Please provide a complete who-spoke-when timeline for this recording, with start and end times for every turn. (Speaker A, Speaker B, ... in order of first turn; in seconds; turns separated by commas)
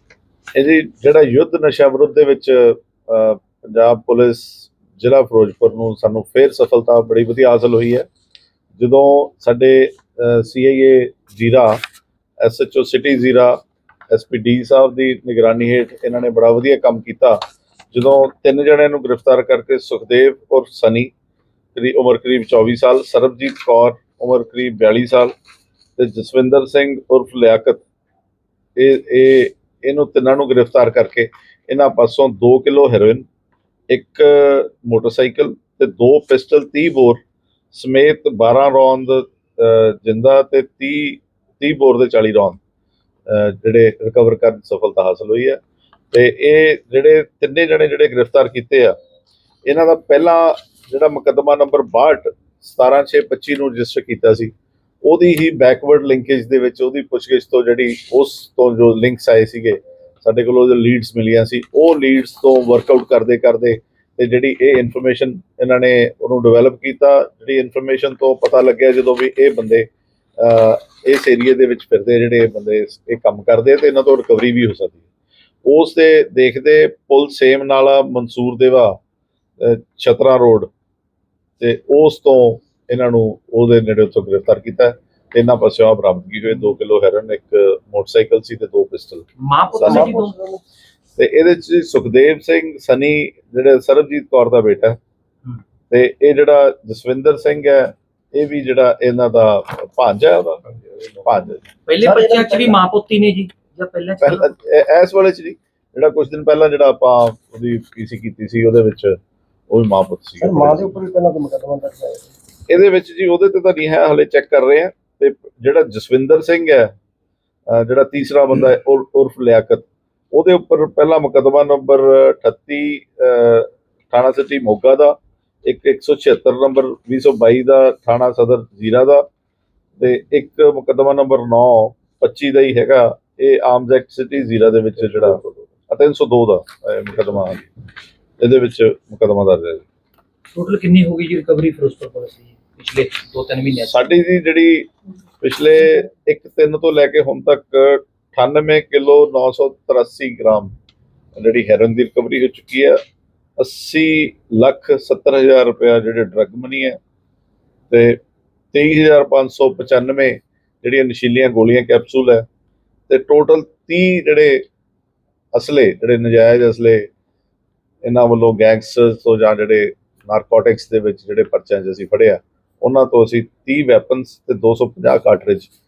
Speaker A: 0.5-8.1, Speaker A: 8.8-11.8, Speaker A: 12.4-13.6, Speaker A: 14.1-17.4, Speaker A: 17.9-21.1, Speaker A: 21.8-25.3, Speaker A: 26.0-27.8, Speaker A: 28.8-33.3, Speaker A: 33.9-37.2, Speaker A: 37.7-42.6, Speaker A: 43.3-45.6, Speaker A: 46.1-49.0, Speaker A: 49.7-54.5, Speaker A: 55.0-69.9, Speaker A: 70.4-75.0, Speaker A: 75.7-79.0, Speaker A: 79.6-80.7, Speaker A: 81.6-90.1, Speaker B: 89.4-90.3, Speaker C: 89.8-90.6, Speaker A: 91.2-95.0, Speaker A: 95.9-101.7, Speaker B: 101.9-104.5, Speaker C: 102.0-102.8, Speaker A: 104.2-109.2, Speaker A: 109.7-110.9, Speaker C: 110.4-112.3, Speaker A: 112.7-116.9, Speaker A: 117.7-129.2, Speaker A: 130.0-137.7, Speaker A: 138.4-139.8, Speaker B: 140.5-144.0, Speaker A: 143.8-144.9, Speaker A: 145.4-150.7, Speaker A: 151.3-153.0, Speaker A: 153.6-157.0, Speaker A: 157.9-158.2, Speaker A: 158.7-162.4, Speaker A: 163.1-164.6, Speaker A: 165.5-167.1, Speaker A: 168.0-175.7